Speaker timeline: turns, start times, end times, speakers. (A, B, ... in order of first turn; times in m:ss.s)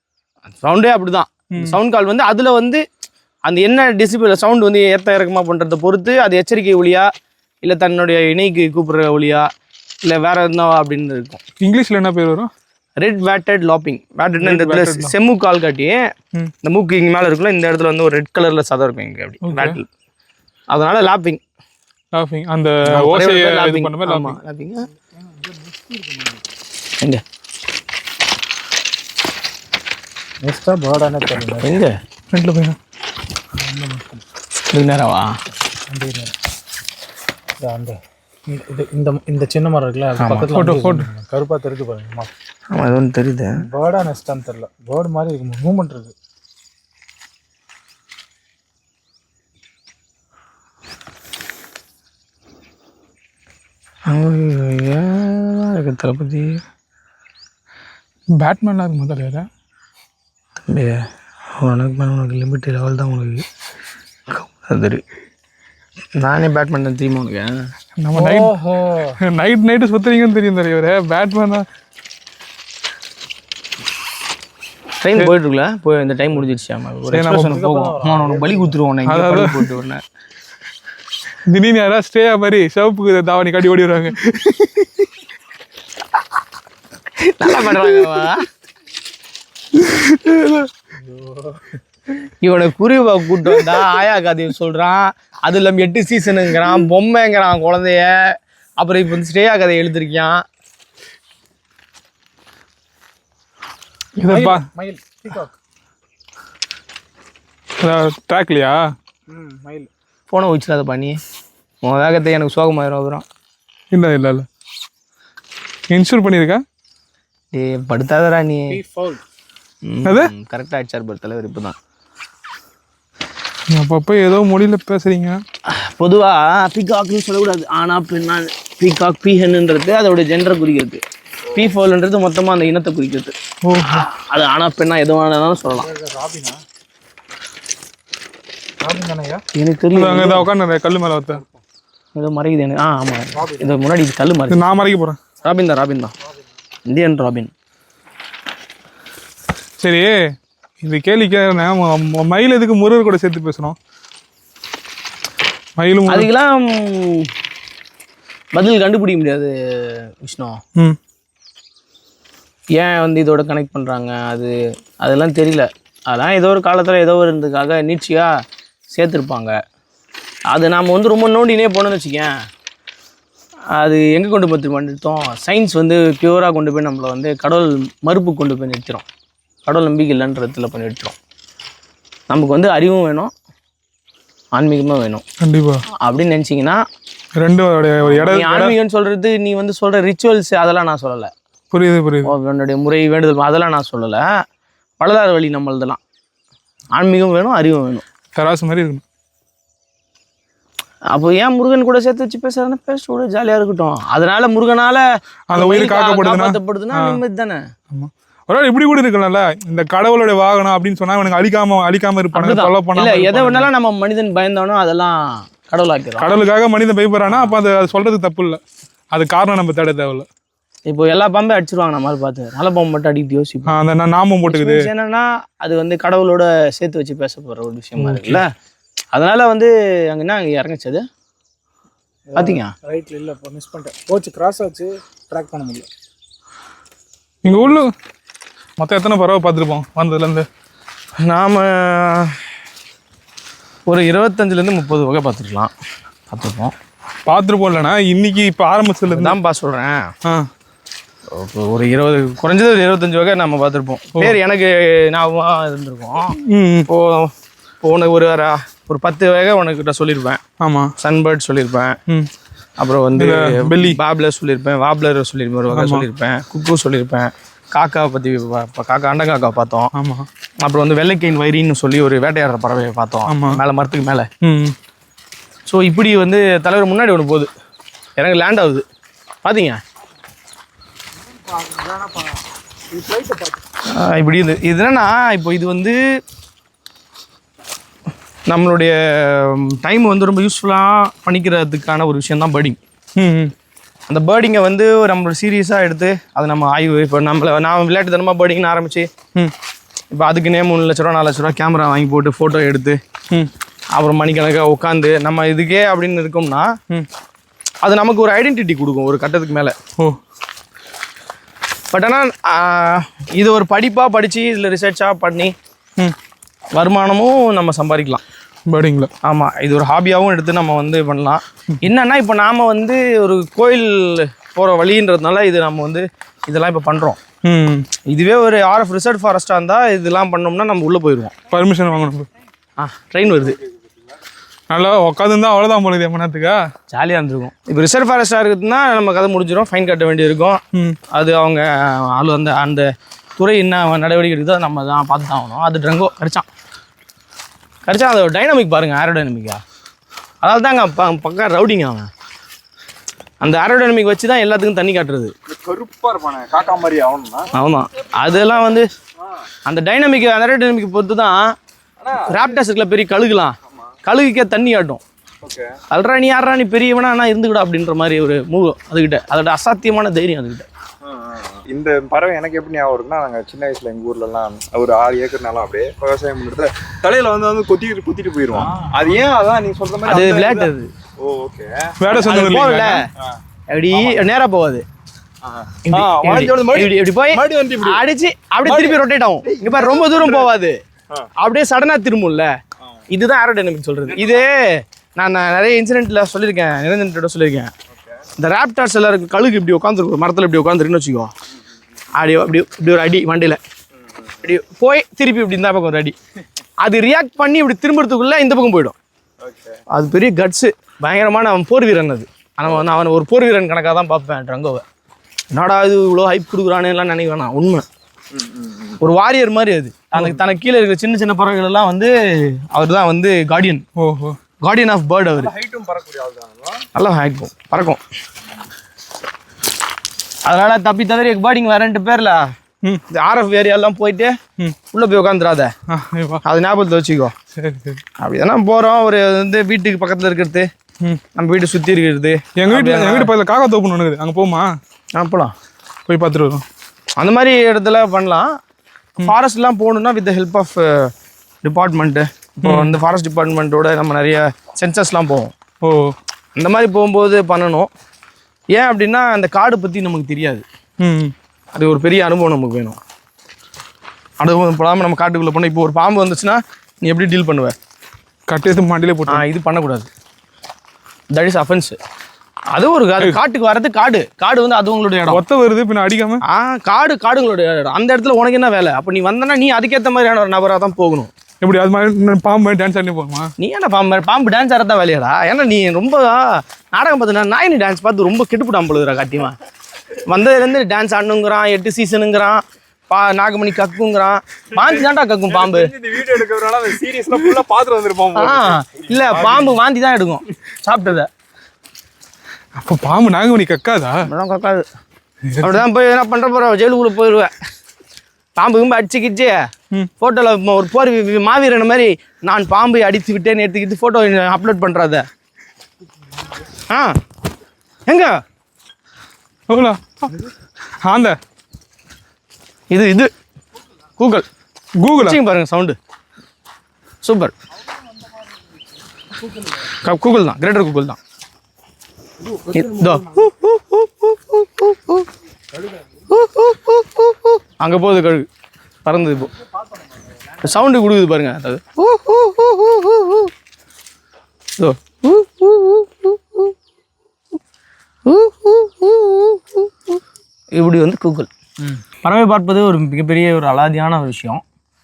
0:00.5-0:02.8 A
0:03.4-0:07.1 A
0:07.6-0:09.5 A
0:10.0-0:11.4 A
0:11.6-0:12.5 B
0:13.0-0:16.1 A
0:14.4-0:15.1 B
0:16.6-0:19.9 A
0:19.4-0:19.8 B
0:20.7-0:21.4 A
0:22.1-0:24.4 B
0:22.9-0:24.9 A
0:25.1-0:26.4 C
0:30.4-0:31.8 C
0:31.6-0:31.9 A
0:32.3-0:32.8 B
0:33.5-0:34.2 C
0:34.7-0:35.3 A
0:35.9-0:36.3 C
0:37.6-0:42.3 C
0:40.2-0:40.6 A
0:40.5-0:41.1 B
0:42.7-0:43.6 A
0:43.6-0:46.1 C
0:54.1-0:56.6 A
0:58.4-0:59.5 B
1:00.7-1:03.4 A
1:04.3-1:05.0 A
1:06.2-1:07.5 A
1:08.0-1:08.6 B
1:08.2-1:09.2 C
1:09.2-1:11.6 B
1:15.0-1:20.0 A
1:17.1-1:17.6 B
1:17.3-1:18.8 C
1:19.1-1:19.6 B
1:21.5-1:24.9 B
1:27.2-1:28.4 A
1:29.8-1:30.7 B
1:31.0-1:31.8 C
1:32.1-1:40.4 A
1:44.2-1:44.6 B
1:44.3-1:45.5 C
1:47.8-1:48.8 B
1:49.3-1:49.9 C
1:50.3-1:51.2 A
1:51.8-1:53.2 A
1:53.9-1:54.4 B
1:55.9-1:56.6 B
1:57.5-1:58.8 A
1:58.7-1:59.2 C
1:59.8-2:01.8 A
2:00.0-2:00.3 B
2:03.7-2:05.4 B
2:05.6-2:13.3 A
2:13.6-2:14.0 B
2:13.9-2:15.9 A
2:15.7-2:16.6 C
2:18.8-2:19.4 C
2:19.5-2:20.5 A
2:19.9-2:21.4 B
2:22.1-2:24.6 A
2:23.4-2:23.6 C
2:24.5-2:25.2 B
2:25.4-2:26.1 A
2:26.8-2:27.5 A
2:29.8-2:30.1 B
2:30.8-2:33.8 B
2:35.8-2:36.3 B
2:36.1-2:37.3 A
2:38.5-2:40.6 A
2:42.8-2:48.3 A
2:48.9-2:49.6 A
2:50.5-2:52.3 A
2:53.7-2:59.0 A
2:59.6-3:01.2 A
3:02.3-3:03.3 A
3:04.5-3:05.2 A
3:05.4-3:05.8 B
3:06.0-3:06.8 A
3:07.4-3:08.8 B
3:08.0-3:11.3 A
3:11.7-3:12.3 B
3:12.2-3:14.3 A
3:15.0-3:16.0 A
3:16.9-3:18.0 A
3:18.3-3:19.0 B
3:21.1-3:27.6 A
3:25.5-3:27.2 B
3:27.9-3:33.7 B
3:32.3-3:36.3 A
3:36.2-3:38.6 B
3:37.3-3:37.6 A
3:39.1-3:40.2 B
3:40.9-3:43.8 A
3:43.7-3:44.9 B
3:44.5-3:48.5 A
3:48.0-3:48.4 B
3:49.1-3:51.0 A
3:52.3-3:55.9 C
3:52.4-3:52.7 A
3:57.4-3:57.9 B
3:58.8-4:00.4 B
4:01.2-4:02.4 A
4:03.8-4:05.7 A
4:06.3-4:06.7 A
4:07.3-4:09.4 B
4:09.1-4:10.1 A
4:11.3-4:16.4 A
4:16.4-4:16.9 B
4:16.9-4:20.4 A
4:20.6-4:20.9 B
4:21.0-4:22.0 A
4:22.8-4:29.9 A
4:23.2-4:24.0 B
4:25.7-4:26.1 B
4:29.9-4:30.3 B
4:30.6-4:34.3 A
4:33.3-4:33.6 B
4:34.4-4:34.7 B
4:35.6-4:37.5 A
4:38.2-4:38.8 A
4:39.4-4:39.8 A
4:41.5-4:42.3 C
4:42.9-4:43.6 C
4:43.8-4:46.0 A
4:48.5-4:52.8 A
4:53.2-4:53.5 B
4:54.1-4:59.1 A
5:00.1-5:03.0 A
5:03.9-5:06.7 A
5:07.8-5:09.7 A
5:11.9-5:15.5 A
5:16.7-5:18.2 A
5:18.7-5:19.1 B
5:19.2-5:27.2 A
5:27.4-5:27.9 B
5:28.0-5:31.3 A
5:31.5-5:32.3 B
5:32.8-5:33.6 A
5:34.7-5:36.6 B
5:36.9-5:46.4 A
5:40.7-5:41.0 B
5:47.8-5:49.6 A
5:50.4-5:52.1 A
5:53.4-5:55.3 A
5:55.5-5:57.5 D
5:57.5-5:58.9 A
5:59.6-6:01.5 A
6:02.1-6:05.0 A
6:05.4-6:05.7 D
6:05.9-6:10.7 A
6:11.4-6:21.9 D
6:20.0-6:20.9 A
6:22.0-6:23.0 B
6:22.1-6:23.0 A
6:23.7-6:24.8 A
6:25.6-6:28.0 D
6:25.8-6:30.8 A
6:28.6-6:30.5 D
6:31.4-6:32.5 A
6:33.1-6:37.7 A
6:38.4-6:41.3 A
6:42.1-6:43.6 A
6:44.4-6:46.2 A
6:46.8-6:48.9 A
6:49.4-6:49.8 D
6:49.9-6:54.8 A
6:55.5-6:57.8 A
6:59.0-7:03.8 A
7:04.0-7:04.4 B
7:04.6-7:05.5 A
7:05.4-7:06.8 D
7:06.9-7:08.0 A
7:10.4-7:12.5 A
7:13.1-7:14.4 A
7:14.9-7:15.7 A
7:15.9-7:16.4 B
7:16.4-7:17.3 A
7:17.6-7:18.0 B
7:18.2-7:20.7 A
7:21.3-7:23.3 A
7:22.6-7:24.7 B
7:25.1-7:25.5 A
7:26.0-7:26.6 B
7:27.2-7:28.5 A
7:29.2-7:31.1 A
7:31.6-7:35.5 A
7:32.6-7:33.0 B
7:35.8-7:36.1 B
7:36.5-7:37.9 A
7:38.7-7:40.6 A
7:41.0-7:41.3 B
7:41.7-7:43.0 A
7:44.4-7:47.7 A
7:48.5-7:49.4 B
7:49.3-7:50.1 A
7:51.3-7:52.0 A
7:52.7-7:55.4 A
7:55.3-7:56.4 B
7:56.4-8:01.3 A
8:01.6-8:03.5 B
8:03.6-8:09.6 A
8:10.1-8:15.9 A
8:15.5-8:19.7 D
8:18.3-8:21.3 A
8:22.8-8:24.2 B
8:24.2-8:24.8 A
8:25.5-8:25.8 B
8:25.6-8:27.5 A
8:28.6-8:29.6 A
8:30.2-8:35.2 A
8:36.7-8:37.2 A
8:38.1-8:38.4 A
8:39.7-8:40.4 B
8:41.0-8:41.4 B
8:42.9-8:43.3 A
8:44.2-8:44.4 A
8:45.0-8:45.4 B
8:45.2-8:46.0 A
8:47.2-8:47.5 A
8:49.8-8:51.2 A
8:52.6-8:55.3 A
8:56.2-8:58.5 A
8:59.0-8:59.6 A
9:00.6-9:03.5 A
9:04.8-9:06.7 A
9:08.2-9:10.1 A
9:10.7-9:11.5 A
9:12.1-9:14.6 A